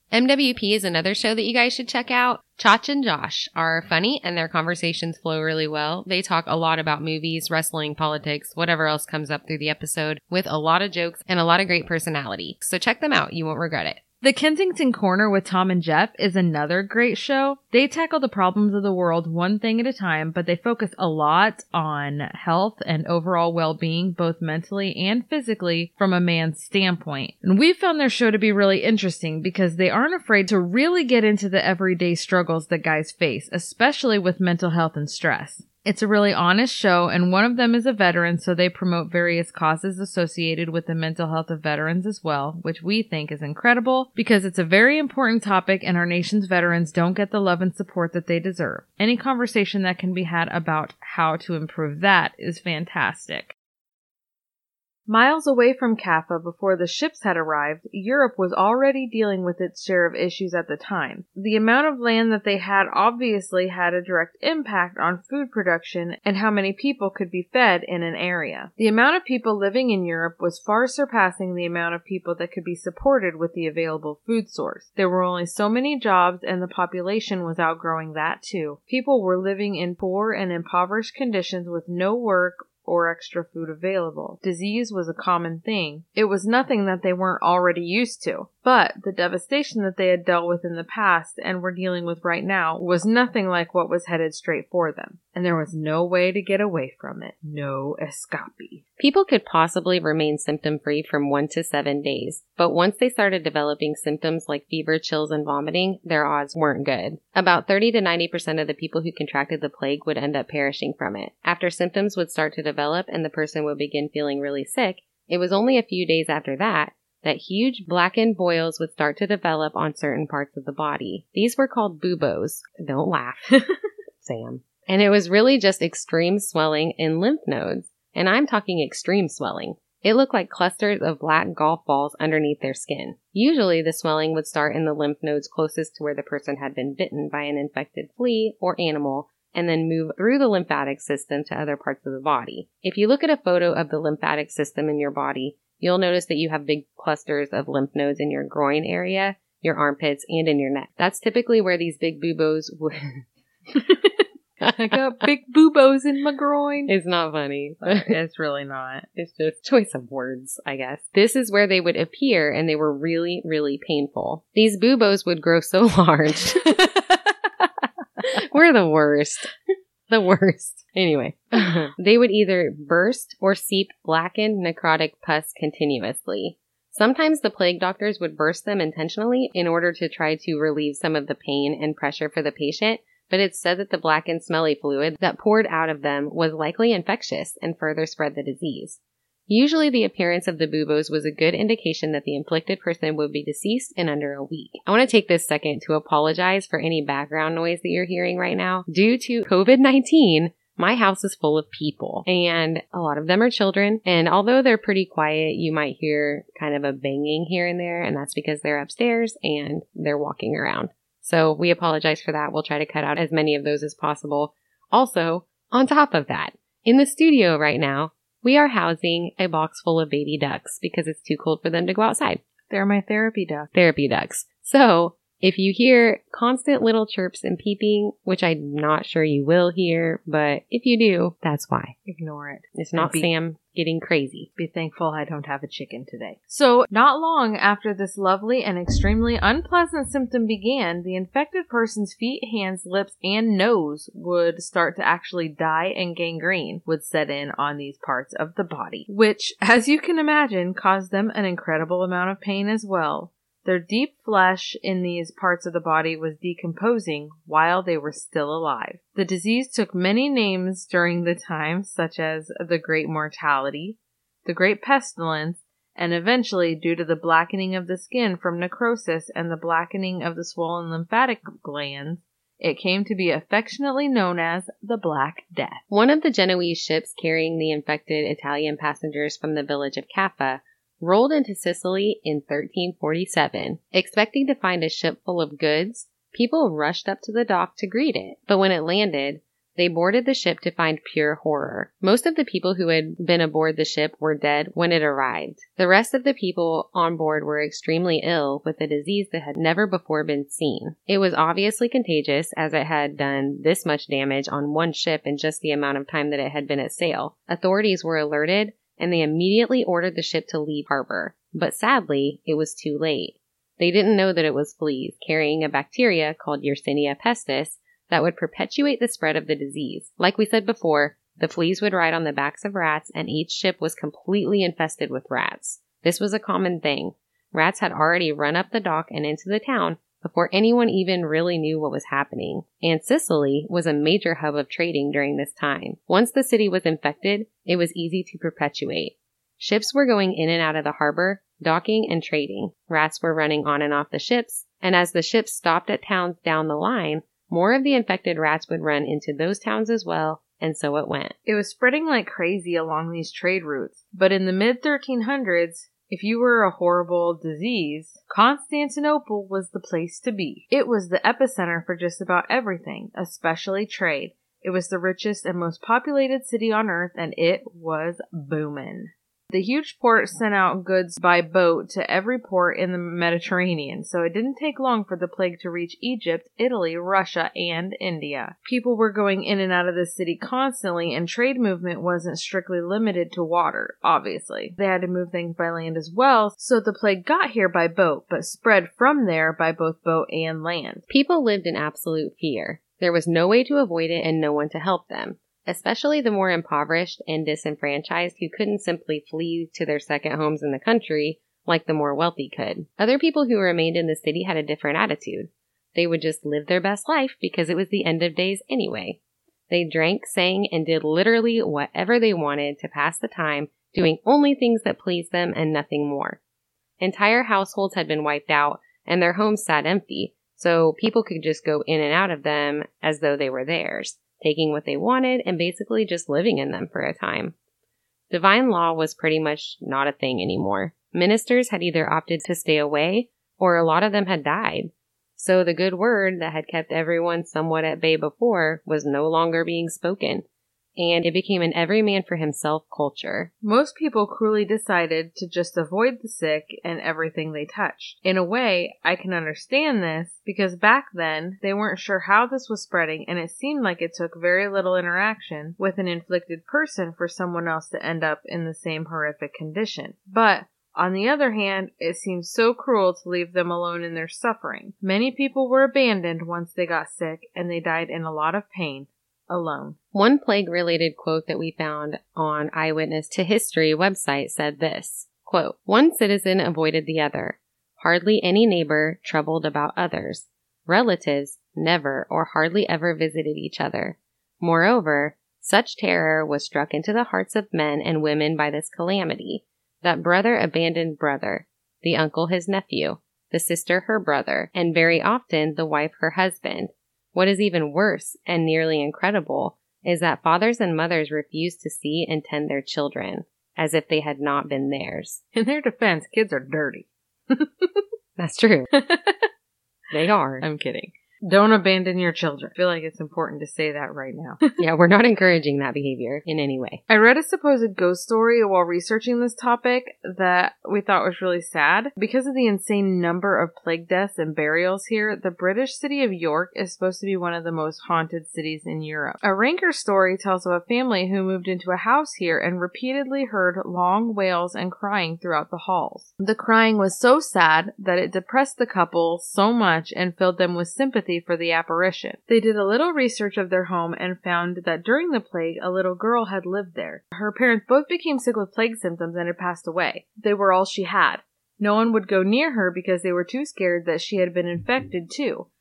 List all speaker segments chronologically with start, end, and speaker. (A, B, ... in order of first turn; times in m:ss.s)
0:00.1-0:14.0 A
0:14.2-0:53.5 B
0:55.1-1:38.8 B
1:39.0-2:03.6 A
2:04.2-2:33.2 A
2:34.7-2:36.9 B
2:36.9-2:38.2 A
2:37.8-2:39.1 B
2:39.2-2:46.8 A
2:48.3-2:49.5 A
2:50.1-3:42.4 A
3:42.7-3:43.7 B
3:43.7-3:52.0 A
3:52.1-3:53.3 B
3:52.7-3:54.5 A
3:54.6-4:35.8 B
4:35.9-5:51.4 A
5:51.5-6:31.0 B
6:31.1-6:49.2 A
6:49.7-6:56.4 A
6:57.0-7:07.6 A
7:08.3-7:20.4 A
7:21.0-7:23.5 A
7:23.6-7:50.0 B
7:50.1-8:25.4 A
8:25.5-8:28.0 B
8:28.4-8:28.9 A
8:28.9-8:29.5 B
8:30.1-8:30.6 A
8:30.6-8:34.6 B
8:34.8-8:37.0 A
8:37.1-9:15.7 B